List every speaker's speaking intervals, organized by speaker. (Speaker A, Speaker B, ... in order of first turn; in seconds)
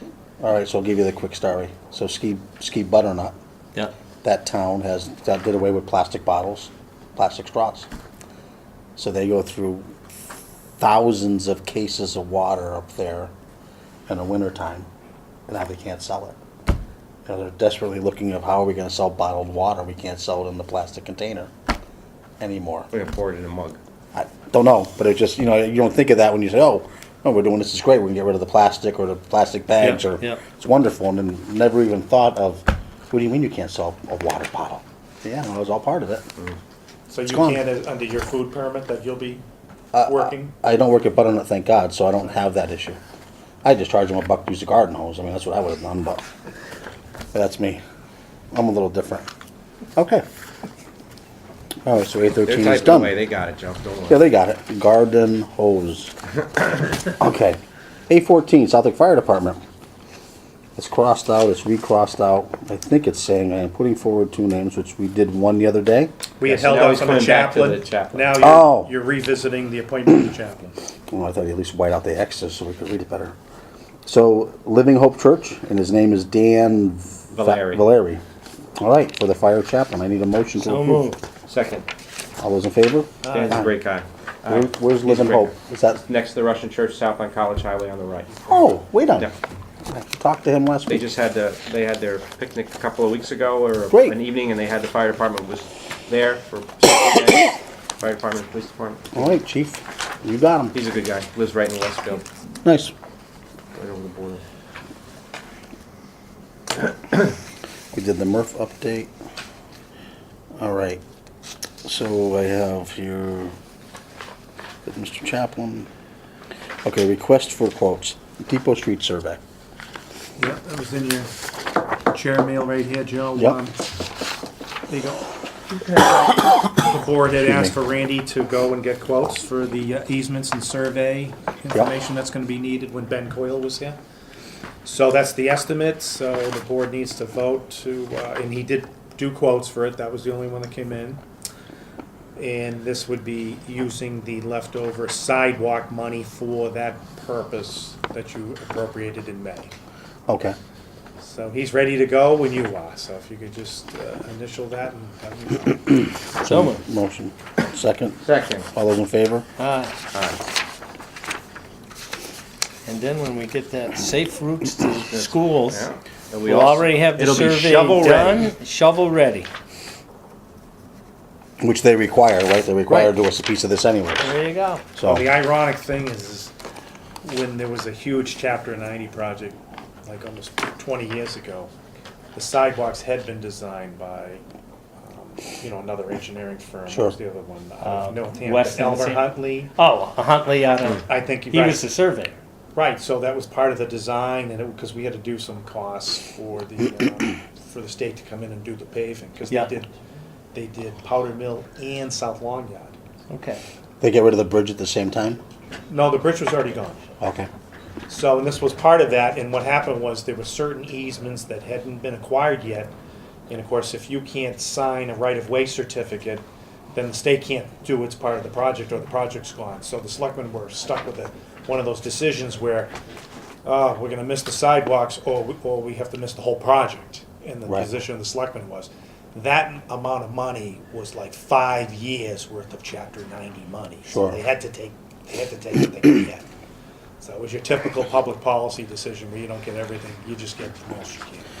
Speaker A: 0.4-3.3, 4.2-7.9, 9.0-9.9, 10.8-13.3, 14.1-14.9, 15.5-16.4, 17.2-21.5, 22.4-22.9, 24.1-36.2, 37.2-37.6, 39.9-43.0, 43.6-46.2, 47.3-47.8, 48.5-49.3, 50.0-50.2, 51.8-53.1, 54.1-56.1, 57.0-59.6, 60.8-66.1, 68.4-68.9, 71.1-73.3, 74.0-78.2, 78.8-81.1, 82.4-83.7, 84.5-86.0, 88.5-89.3, 89.9-91.0, 93.9-94.2, 99.1-100.8, 102.6-102.9, 107.9-109.1, 110.6-111.0, 111.8-113.5, 114.8-115.9, 116.8-119.4, 127.4-127.7, 150.3-150.6, 156.4-158.2, 158.7-159.4, 171.6-174.3, 174.9-175.3, 186.9-187.1, 204.0-205.4, 207.2-207.5, 234.1-234.4
Speaker B: 22.9-23.8, 52.4-54.2, 66.4-68.3, 77.3-77.8, 81.5-81.8, 83.3-85.5, 86.1-89.3, 90.9-99.3, 100.7-102.2, 103.7-104.4, 158.2-158.7, 160.1-160.4, 165.1-168.5
Speaker C: 29.8-30.4, 80.6-81.2, 156.4-156.8, 159.6-159.9, 162.8-165.8, 166.4-169.5, 174.2-174.8, 187.8-192.3, 203.3-203.6
Speaker D: 37.1-39.4, 40.0-40.5, 66.4-70.8, 120.4-121.3, 122.1-123.8, 124.9-125.3, 125.9-134.0, 134.8-141.2, 142.3-149.7, 151.2-156.1, 175.0-176.5, 177.2-181.7, 182.3-184.4, 185.0-189.7, 190.8-191.9, 192.7-199.9, 200.5-202.9, 205.9-207.0, 208.1-212.9, 213.5-222.9, 223.6-236.4, 237.2-241.4